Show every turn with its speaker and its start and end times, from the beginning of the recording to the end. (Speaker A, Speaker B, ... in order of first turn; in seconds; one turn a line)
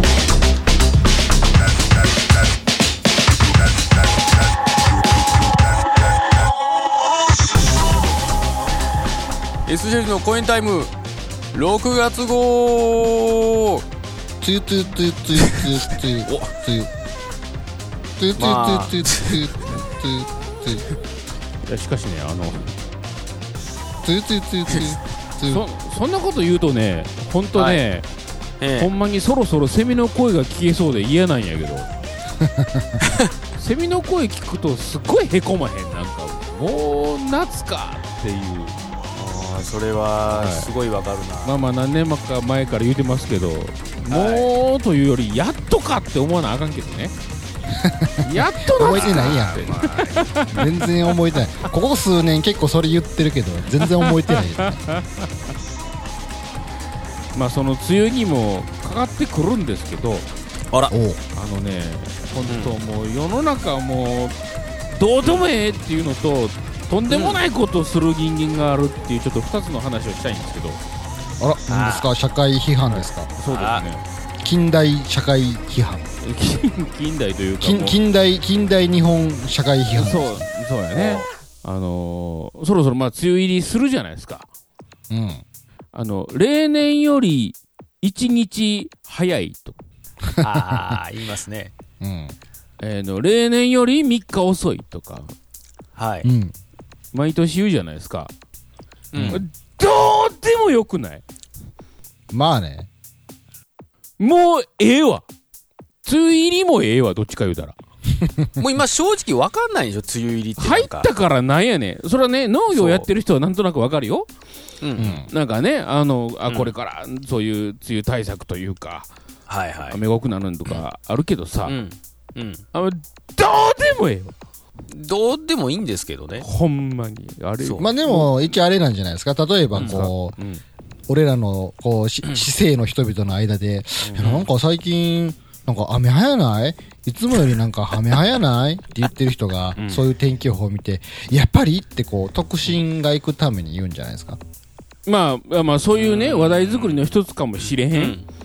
Speaker A: 9.7-10.9
Speaker A: 11.5-13.8
Speaker B: 14.4-16.9
Speaker A: 15.4-15.7
Speaker A: 16.3-16.5
Speaker B: 18.2-20.9
Speaker A: 18.4-19.5
Speaker C: 21.7-22.8
Speaker B: 24.0-25.6
Speaker A: 24.7-24.9
Speaker C: 25.5-28.1
Speaker A: 27.6-27.8
Speaker A: 28.6-28.9
Speaker C: 28.8-31.9
Speaker B: 32.4-33.0
Speaker C: 33.6-38.8
Speaker A: 39.1-41.6
Speaker C: 40.3-40.7
Speaker C: 41.5-47.1
Speaker A: 44.1-44.5
Speaker B: 47.7-49.7
Speaker C: 48.2-50.8
Speaker A: 48.8-50.3
Speaker B: 50.5-54.8
Speaker C: 54.0-55.3
Speaker C: 57.3-60.3
Speaker B: 60.9-61.2
Speaker C: 61.3-64.3
Speaker A: 62.5-62.7
Speaker C: 65.0-70.8
Speaker A: 67.1-67.4
Speaker B: 71.4-73.3
Speaker A: 71.7-72.1
Speaker C: 72.9-74.0
Speaker A: 73.5-73.8
Speaker B: 74.4-76.1
Speaker C: 76.2-78.0
Speaker B: 77.6-80.4
Speaker C: 79.9-84.5
Speaker A: 80.9-81.3
Speaker B: 85.1-85.4
Speaker C: 85.9-89.8
Speaker B: 90.3-90.8
Speaker A: 90.4-91.7
Speaker B: 92.0-92.3
Speaker C: 92.8-95.3
Speaker A: 96.0-96.3
Speaker B: 96.2-96.5
Speaker C: 97.1-98.3
Speaker A: 99.1-99.4
Speaker B: 99.1-99.4
Speaker C: 99.3-101.2
Speaker B: 102.3-102.9
Speaker C: 104.2-105.2
Speaker C: 106.0-107.8
Speaker B: 108.2-108.5
Speaker A: 108.6-111.1
Speaker C: 110.6-114.3
Speaker A: 112.7-113.1
Speaker A: 114.8-115.2
Speaker B: 115.0-115.3
Speaker C: 115.3-119.1
Speaker A: 116.5-116.7
Speaker A: 119.5-120.0
Speaker C: 119.9-121.8
Speaker A: 121.7-122.6
Speaker C: 122.7-124.3
Speaker A: 124.9-126.5
Speaker C: 126.4-128.3
Speaker A: 127.6-128.0
Speaker B: 127.8-130.3
Speaker C: 129.8-130.6
Speaker A: 129.8-130.1
Speaker B: 131.1-144.4
Speaker C: 134.0-134.4
Speaker A: 134.2-134.5
Speaker C: 139.8-140.1
Speaker C: 145.1-148.2
Speaker A: 145.9-147.1
Speaker A: 147.8-148.3